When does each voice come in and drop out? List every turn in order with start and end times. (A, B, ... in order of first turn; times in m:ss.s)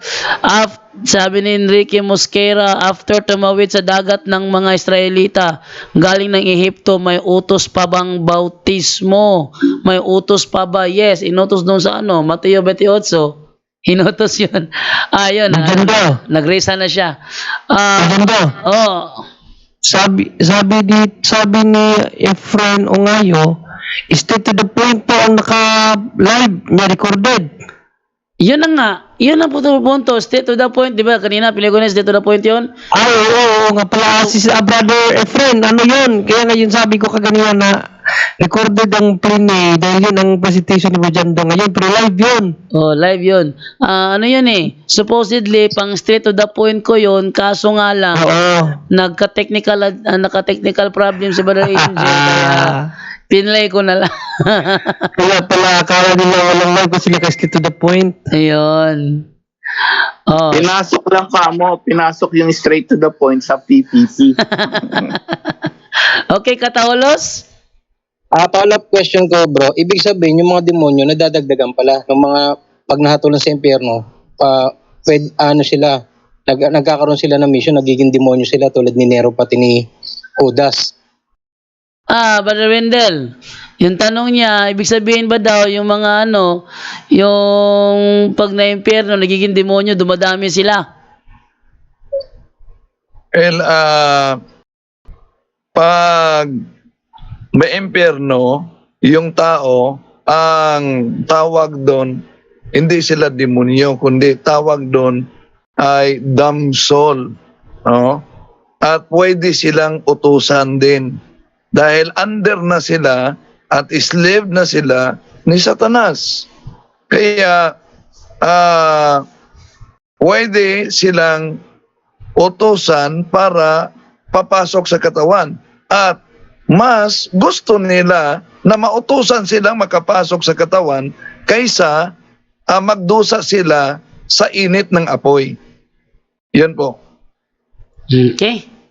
0:00.4-0:13.3 A
0:13.9-0:17.2 A
0:15.5-0:16.2 B
0:17.7-0:19.2 A
0:18.0-0:18.5 B
0:19.8-0:23.5 B
0:24.1-0:27.5 B
0:28.4-0:32.7 A
0:32.9-0:37.7 B
0:34.1-0:34.4 A
0:38.4-0:42.6 B
0:42.7-0:48.4 A
0:48.1-0:48.8 B
0:48.9-0:52.8 A
0:51.6-0:52.8 B
0:53.3-0:55.0 A
0:55.2-0:58.2 B
0:58.3-0:59.2 A
1:00.3-1:00.7 A
1:00.5-1:05.1 C
1:04.5-1:05.7 A
1:06.3-1:07.4 A
1:08.4-1:19.9 D
1:20.4-1:20.8 D
1:22.1-1:23.2 A
1:23.8-1:26.6 A
1:27.1-1:30.8 A
1:33.4-1:34.4 E
1:35.8-1:36.5 E
1:37.6-1:42.2 E
1:42.7-1:45.2 E
1:45.8-1:47.3 E
1:47.9-1:48.2 E
1:48.8-1:51.1 E
1:51.7-1:56.5 E
1:57.1-1:57.8 E
1:58.4-1:59.2 E
2:00.2-2:01.6 E
2:02.4-2:06.2 E
2:06.7-2:12.1 E
2:12.7-2:15.6 E
2:16.6-2:17.0 E
2:18.1-2:18.6 A